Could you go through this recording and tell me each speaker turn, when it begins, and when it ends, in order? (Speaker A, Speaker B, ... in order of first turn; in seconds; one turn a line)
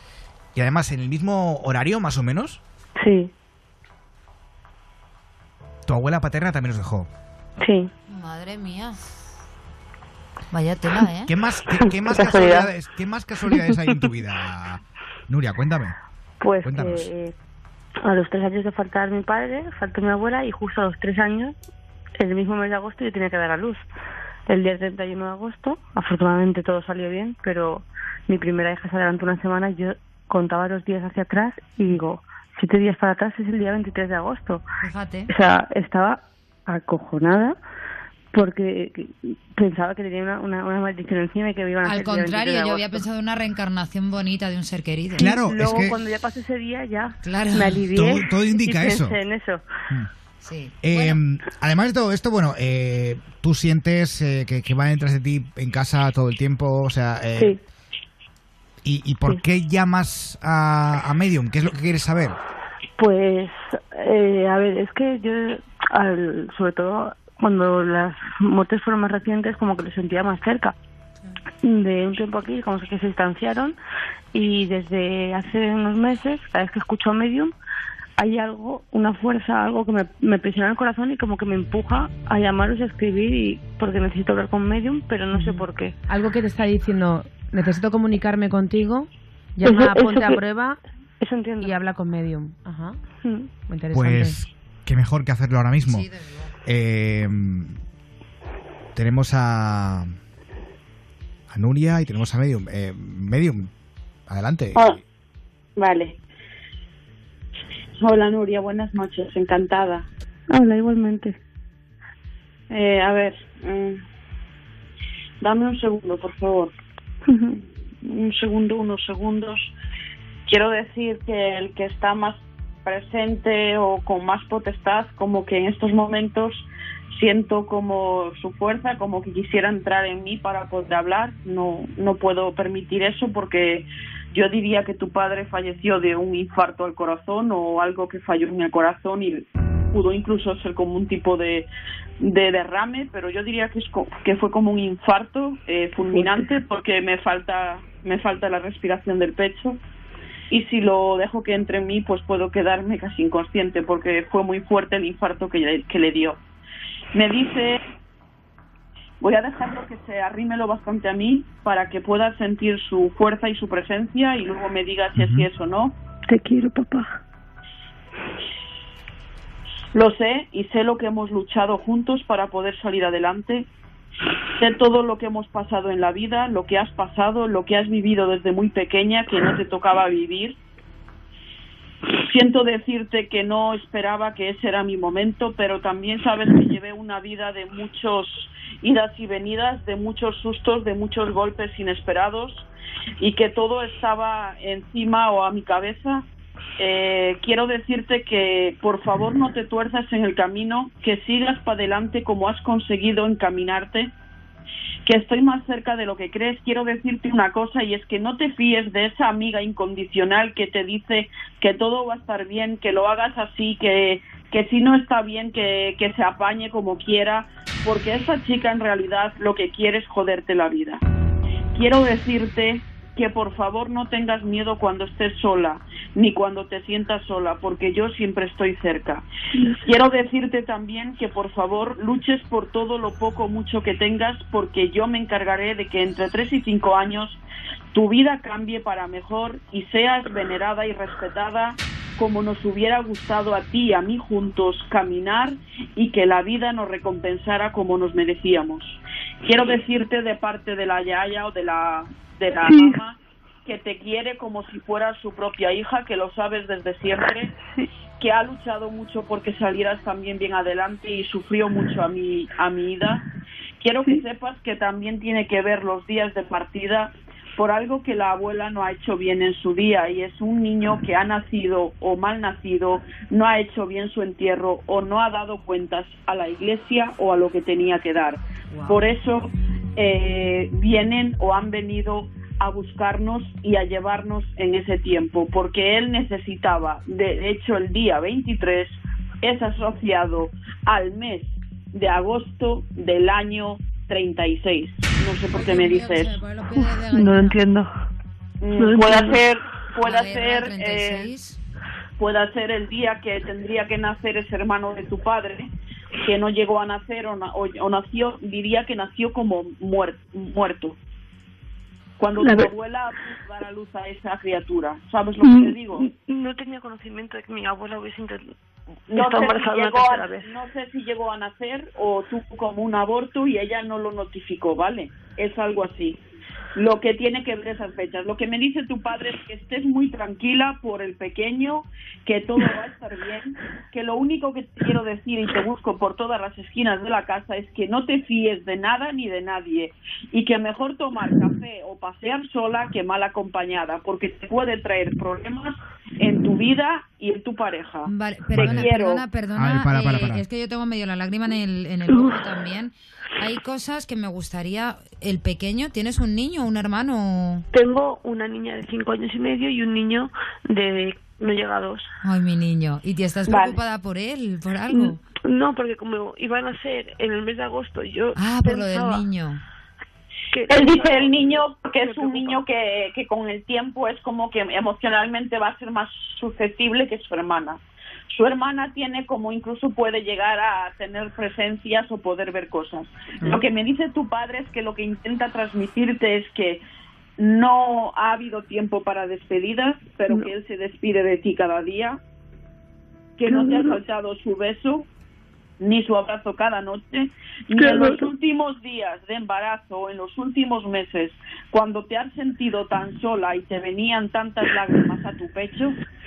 Speaker A: 0.5-2.6
Speaker B: 3.0-3.3
Speaker A: 5.9-7.1
Speaker B: 7.6-7.9
Speaker C: 8.1-9.0
Speaker C: 10.5-11.3
Speaker A: 11.3-15.9
Speaker B: 12.1-12.6
Speaker B: 16.4-17.3
Speaker A: 16.6-17.1
Speaker B: 18.1-21.5
Speaker B: 22.2-23.8
Speaker B: 24.5-29.6
Speaker B: 30.3-34.6
Speaker C: 34.8-35.3
Speaker B: 35.3-36.2
Speaker B: 36.7-37.6
Speaker B: 38.3-43.0
Speaker C: 41.9-45.3
Speaker A: 45.2-46.0
Speaker B: 45.2-49.6
Speaker C: 47.2-48.1
Speaker A: 47.9-49.2
Speaker C: 50.4-51.2
Speaker A: 50.8-57.6
Speaker A: 58.8-62.4
Speaker B: 63.0-70.8
Speaker B: 71.6-73.8
Speaker B: 74.3-77.5
Speaker B: 78.2-86.0
Speaker D: 85.3-90.8
Speaker B: 89.7-90.4
Speaker B: 91.2-91.8
Speaker D: 91.6-93.0
Speaker B: 93.2-93.5
Speaker D: 93.7-94.4
Speaker A: 93.9-96.1
Speaker C: 95.9-96.5
Speaker A: 96.7-97.8
Speaker A: 99.0-100.2
Speaker A: 101.5-103.7
Speaker A: 104.3-105.0
Speaker E: 105.8-106.1
Speaker E: 108.0-110.1
Speaker B: 110.5-111.3
Speaker E: 112.7-114.0
Speaker E: 115.4-116.7
Speaker B: 117.3-117.6
Speaker E: 118.1-119.7
Speaker E: 120.5-141.7
Speaker E: 142.2-149.8
Speaker E: 150.5-156.4
Speaker E: 157.1-157.8
Speaker E: 159.2-165.9
Speaker A: 165.2-165.5
Speaker B: 166.3-167.2
Speaker E: 169.9-173.7
Speaker E: 174.6-180.6
Speaker E: 182.3-192.7
Speaker E: 193.2-196.2
Speaker E: 196.8-204.1
Speaker E: 205.1-221.0
Speaker E: 221.8-229.3
Speaker E: 229.8-237.4
Speaker E: 237.9-257.5
Speaker B: 252.7-253.0
Speaker E: 258.2-263.2
Speaker E: 263.8-296.4
Speaker C: 295.5-297.6
Speaker B: 297.1-297.9
Speaker E: 298.6-301.3
Speaker B: 298.8-299.5
Speaker C: 300.0-301.6
Speaker E: 302.2-305.7
Speaker E: 306.2-311.0
Speaker E: 312.2-316.1
Speaker B: 312.4-312.7
Speaker B: 315.4-318.5
Speaker B: 319.1-320.5
Speaker E: 319.1-326.2
Speaker E: 326.8-348.1
Speaker C: 348.1-357.6
Speaker A: 348.5-348.9
Speaker E: 348.7-349.3
Speaker A: 349.6-350.4
Speaker B: 357.7-362.1
Speaker C: 362.2-365.2
Speaker B: 364.9-369.3
Speaker C: 368.4-369.6
Speaker B: 370.5-372.6
Speaker E: 370.7-386.8
Speaker E: 387.4-392.2
Speaker E: 393.4-395.1
Speaker B: 393.5-394.0
Speaker E: 395.8-406.0
Speaker B: 397.8-398.2